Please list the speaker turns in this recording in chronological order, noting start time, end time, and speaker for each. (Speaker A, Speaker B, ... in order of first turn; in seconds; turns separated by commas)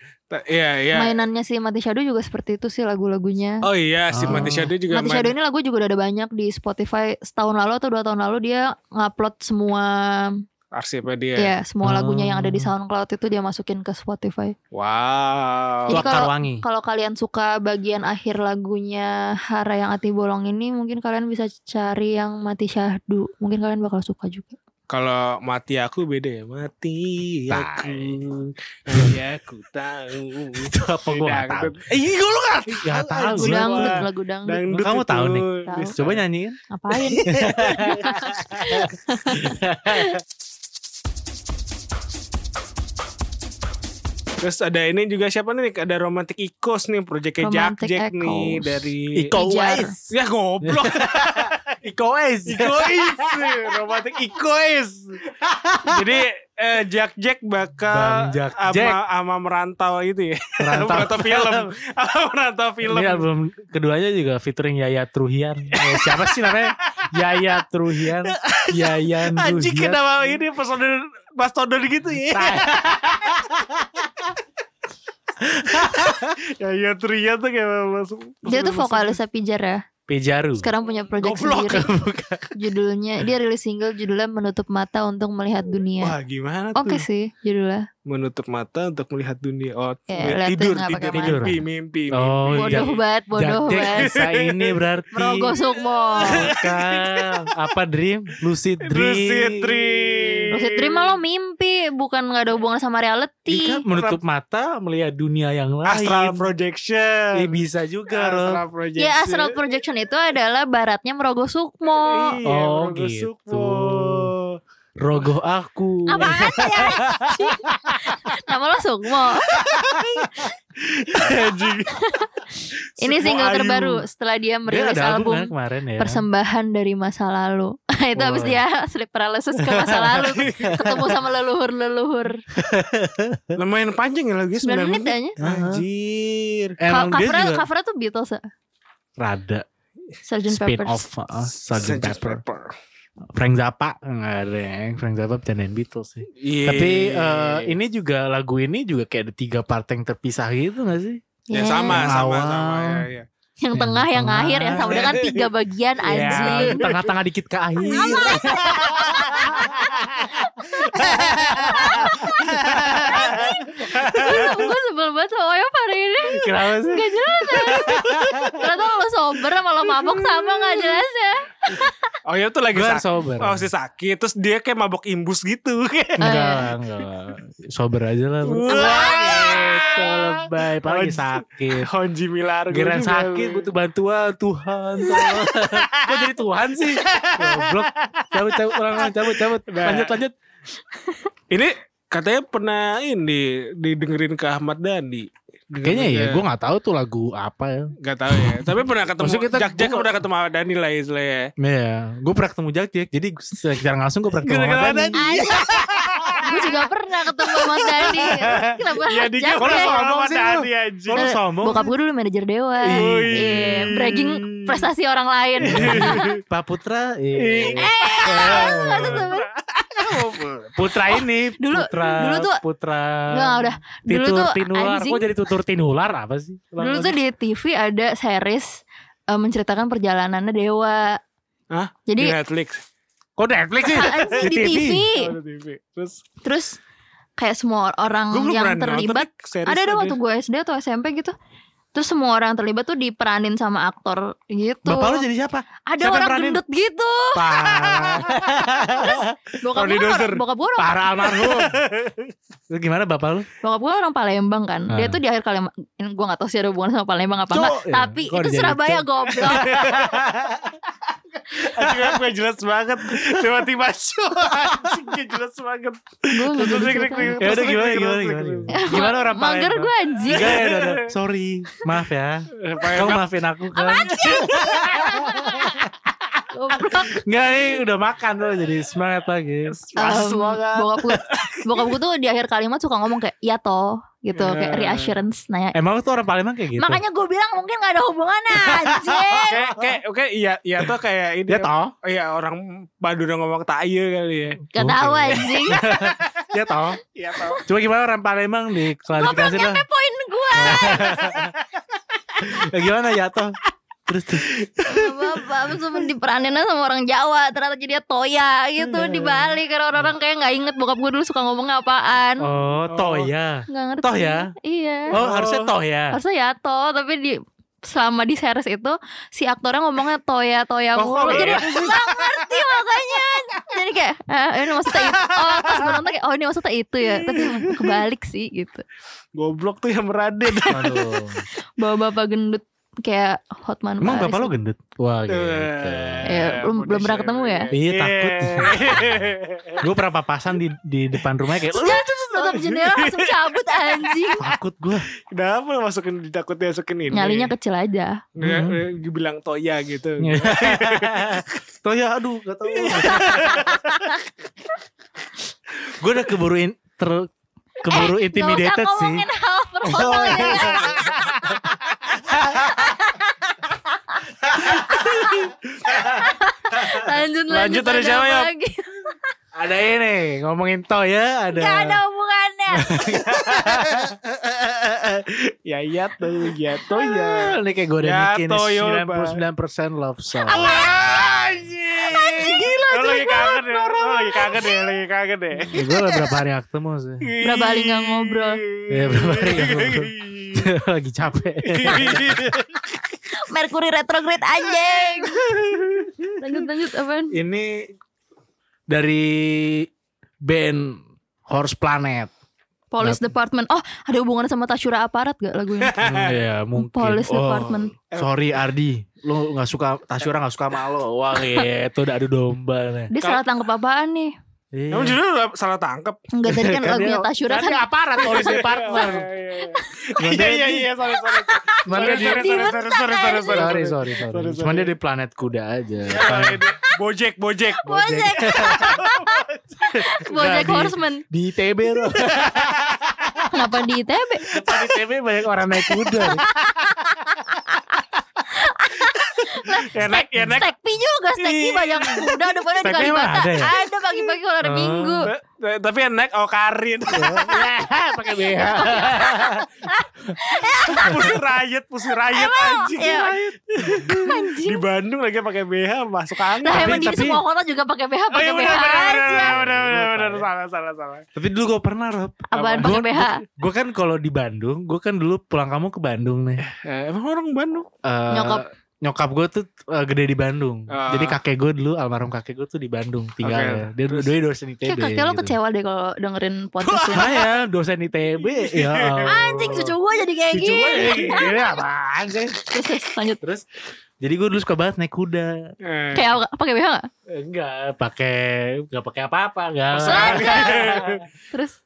Speaker A: 0.3-1.2, Speaker B: 0.9-3.6, Speaker A: 3.6-5.3, Speaker C: 4.1-4.7, Speaker B: 4.3-10.4, Speaker A: 10.7-11.5, Speaker B: 11.4-14.5, Speaker C: 11.8-12.7, Speaker A: 14.7-16.1, Speaker B: 15.9-24.5, Speaker C: 15.9-16.6, Speaker A: 24.9-36.2, Speaker C: 27.5-28.2, Speaker C: 28.9-29.2, Speaker C: 30.6-31.9, Speaker C: 32.7-34.0, Speaker B: 33.3-34.6, Speaker C: 34.7-36.6, Speaker B: 35.6-36.0, Speaker B: 36.7-40.2, Speaker A: 36.9-38.4, Speaker C: 37.3-40.2, Speaker A: 44.4-49.3, Speaker B: 47.4-48.8, Speaker C: 49.1-54.0, Speaker B: 49.3-49.9, Speaker A: 50.1-51.8, Speaker A: 52.5-55.2, Speaker C: 55.4-56.2, Speaker A: 55.8-63.2, Speaker C: 57.9-59.0, Speaker C: 60.6-61.7, Speaker C: 62.8-70.4, Speaker A: 65.7-67.4, Speaker A: 68.0-72.7, Speaker C: 72.3-73.5, Speaker C: 75.4-76.3, Speaker A: 75.8-79.2, Speaker B: 78.4-79.8, Speaker C: 80.1-80.7, Speaker B: 80.6-81.9, Speaker A: 81.1-81.8, Speaker C: 81.7-82.5, Speaker B: 82.5-86.2, Speaker A: 86.0-87.0, Speaker B: 86.7-87.9, Speaker A: 88.0-93.0, Speaker B: 90.1-91.5, Speaker C: 91.1-91.6, Speaker C: 92.1-95.5, Speaker B: 92.5-94.1, Speaker A: 93.8-94.8, Speaker B: 95.1-96.5, Speaker A: 95.6-97.5, Speaker C: 96.2-100.4, Speaker A: 98.8-101.2, Speaker B: 100.5-103.8, Speaker C: 103.5-106.5, Speaker A: 103.9-104.2, Speaker A: 105.8-107.5, Speaker C: 107.3-108.6, Speaker A: 108.1-109.6, Speaker B: 109.0-112.4, Speaker A: 112.0-114.6, Speaker C: 112.4-114.3, Speaker C: 115.0-118.0, Speaker B: 116.1-119.6, Speaker A: 119.5-122.2, Speaker C: 119.7-120.0, Speaker B: 121.9-122.4, Speaker A: 123.0-124.0, Speaker B: 123.0-132.4, Speaker C: 124.7-126.2, Speaker C: 128.2-128.6, Speaker C: 129.6-131.0, Speaker A: 130.3-130.8, Speaker C: 132.5-133.6, Speaker A: 133.6-136.8, Speaker B: 134.6-135.4, Speaker C: 135.4-135.8, Speaker C: 136.8-137.6, Speaker B: 136.9-138.4, Speaker C: 139.2-139.7, Speaker B: 140.2-141.0, Speaker C: 140.5-142.4, Speaker A: 141.7-142.7, Speaker C: 143.3-151.2, Speaker A: 146.4-147.8, Speaker B: 151.5-152.1, Speaker A: 151.5-153.2, Speaker C: 151.9-153.1, Speaker B: 153.6-156.8, Speaker C: 153.7-155.2, Speaker A: 154.8-155.5, Speaker C: 156.1-160.2, Speaker A: 156.1-157.1, Speaker A: 157.8-164.5, Speaker B: 157.9-172.1, Speaker C: 160.8-164.6, Speaker C: 166.3-168.7, Speaker A: 172.2-176.3, Speaker C: 172.7-173.7, Speaker C: 176.2-181.9, Speaker B: 176.2-176.7, Speaker A: 178.4-183.7, Speaker B: 178.7-179.3, Speaker C: 182.7-190.3, Speaker A: 185.0-186.3, Speaker A: 186.9-190.2, Speaker A: 191.5-196.4, Speaker C: 195.8-200.1, Speaker A: 198.0-201.5, Speaker C: 201.6-206.7, Speaker A: 204.4-206.7, Speaker B: 205.1-205.7, Speaker B: 206.4-210.0, Speaker C: 208.0-208.8, Speaker A: 208.0-211.2, Speaker C: 209.6-211.9, Speaker B: 211.1-216.3, Speaker C: 212.8-213.9, Speaker A: 212.9-214.9, Speaker A: 215.6-216.4, Speaker C: 215.7-219.3, Speaker A: 217.3-220.8, Speaker B: 217.7-219.5, Speaker C: 220.7-227.1, Speaker B: 221.1-222.6, Speaker B: 223.3-225.3, Speaker B: 226.8-231.2, Speaker A: 231.7-232.8, Speaker B: 232.1-232.3, Speaker C: 233.4-235.1, Speaker B: 233.8-235.3, Speaker A: 234.1-234.4, Speaker A: 235.1-236.2, Speaker B: 236.4-236.8, Speaker B: 237.4-241.3, Speaker A: 238.3-240.2, Speaker B: 241.9-245.2, Speaker C: 244.8-246.6, Speaker B: 245.9-247.8, Speaker C: 247.3-249.3, Speaker B: 248.8-251.4, Speaker A: 249.7-250.4, Speaker C: 250.8-251.8, Speaker A: 251.2-252.3, Speaker C: 252.7-253.5, Speaker B: 253.6-259.9, Speaker C: 254.9-255.2, Speaker C: 257.5-260.7, Speaker A: 259.4-260.5, Speaker A: 261.5-269.1, Speaker C: 261.7-262.2, Speaker C: 263.1-263.6, Speaker C: 264.5-265.0, Speaker B: 266.3-267.4, Speaker C: 267.4-276.1, Speaker B: 268.7-270.6, Speaker A: 270.3-271.1, Speaker A: 272.6-273.2, Speaker B: 273.7-275.7, Speaker A: 274.2-275.7, Speaker B: 276.5-277.2, Speaker C: 277.1-279.8, Speaker A: 279.7-281.6, Speaker B: 279.9-285.8, Speaker A: 284.4-285.2, Speaker C: 285.7-287.0, Speaker B: 286.8-289.6, Speaker C: 288.5-290.0, Speaker A: 289.5-294.6, Speaker C: 291.5-291.9, Speaker B: 294.7-295.8, Speaker C: 294.7-297.0, Speaker A: 295.9-296.4, Speaker A: 297.1-297.6, Speaker C: 297.6-299.8, Speaker B: 299.1-301.4, Speaker C: 300.5-301.5, Speaker A: 301.2-301.5, Speaker C: 302.4-303.6, Speaker C: 304.1-305.1, Speaker B: 304.9-312.5, Speaker C: 308.8-310.1, Speaker C: 312.4-314.5, Speaker A: 312.9-313.3, Speaker B: 313.7-315.1, Speaker C: 315.1-316.2, Speaker A: 315.1-315.7, Speaker B: 316.1-328.8, Speaker C: 321.0-321.9, Speaker A: 321.2-322.3, Speaker A: 325.0-326.0, Speaker A: 329.3-331.1, Speaker C: 330.6-331.4, Speaker B: 331.8-334.5, Speaker C: 334.0-336.5, Speaker A: 335.3-339.9, Speaker B: 336.2-337.7, Speaker C: 337.7-342.0, Speaker B: 341.7-344.4, Speaker A: 342.3-344.1, Speaker C: 344.4-345.1, Speaker A: 345.3-347.5, Speaker B: 347.1-348.2, Speaker A: 348.4-351.5, Speaker C: 348.4-348.8, Speaker C: 350.2-353.8, Speaker A: 352.7-354.1, Speaker B: 353.2-354.1, Speaker C: 356.0-357.3, Speaker C: 357.8-359.2, Speaker B: 357.9-361.9, Speaker C: 359.8-363.0, Speaker A: 360.2-361.1, Speaker B: 362.5-369.2, Speaker C: 364.4-367.0, Speaker A: 365.2-365.5, Speaker A: 367.5-368.5, Speaker C: 369.5-372.0, Speaker B: 371.5-373.4, Speaker C: 372.7-375.2, Speaker A: 373.5-374.1, Speaker A: 375.6-379.4, Speaker C: 376.9-380.8, Speaker A: 380.5-386.2, Speaker B: 380.5-381.5, Speaker B: 382.0-385.0, Speaker C: 385.6-387.3, Speaker A: 387.2-390.7, Speaker B: 387.4-388.6, Speaker C: 388.9-392.5, Speaker A: 391.6-393.0, Speaker B: 393.4-395.5, Speaker A: 394.8-396.2, Speaker B: 396.4-397.4, Speaker C: 397.3-397.9, Speaker C: 398.9-399.9, Speaker C: 400.4-402.3, Speaker B: 402.9-406.1, Speaker A: 405.8-406.4, Speaker C: 406.0-413.1, Speaker B: 406.7-407.9, Speaker A: 408.1-408.3, Speaker B: 413.1-414.3, Speaker C: 414.7-415.2, Speaker A: 414.9-416.2, Speaker B: 416.3-420.3, Speaker C: 416.5-419.3, Speaker A: 418.2-424.9, Speaker C: 420.2-420.9, Speaker B: 421.2-423.7, Speaker C: 421.9-422.7, Speaker C: 423.5-426.6, Speaker A: 426.0-429.8, Speaker B: 427.8-429.4, Speaker C: 427.9-429.1, Speaker C: 429.9-432.9, Speaker B: 429.9-431.2, Speaker A: 432.1-433.4, Speaker B: 433.5-434.6, Speaker C: 434.5-436.4, Speaker B: 436.1-445.3, Speaker A: 439.4-440.7, Speaker A: 441.4-442.4, Speaker C: 442.8-443.7, Speaker C: 444.6-445.3, Speaker A: 445.2-447.7, Speaker C: 447.1-449.6, Speaker B: 448.5-451.4, Speaker A: 450.8-457.1, Speaker C: 450.9-451.4, Speaker B: 452.2-453.4, Speaker C: 453.8-454.3, Speaker B: 454.2-454.8, Speaker B: 456.6-459.6, Speaker C: 456.7-457.4, Speaker A: 458.3-461.2, Speaker C: 459.3-460.5, Speaker C: 461.4-466.6, Speaker B: 462.5-463.4, Speaker A: 462.5-463.0, Speaker A: 466.6-467.9, Speaker C: 468.0-475.5, Speaker B: 468.3-468.6, Speaker A: 470.9-471.4, Speaker A: 473.4-474.3, Speaker B: 474.8-477.4, Speaker A: 476.8-477.5, Speaker C: 477.1-479.9, Speaker A: 478.5-479.4, Speaker B: 479.2-481.5, Speaker C: 480.5-482.7, Speaker B: 482.7-483.4, Speaker C: 483.4-483.6, Speaker C: 484.2-485.7, Speaker A: 485.8-486.2, Speaker B: 486.1-487.1, Speaker C: 487.3-491.2, Speaker A: 489.9-491.2, Speaker B: 490.0-491.0, Speaker B: 491.5-491.8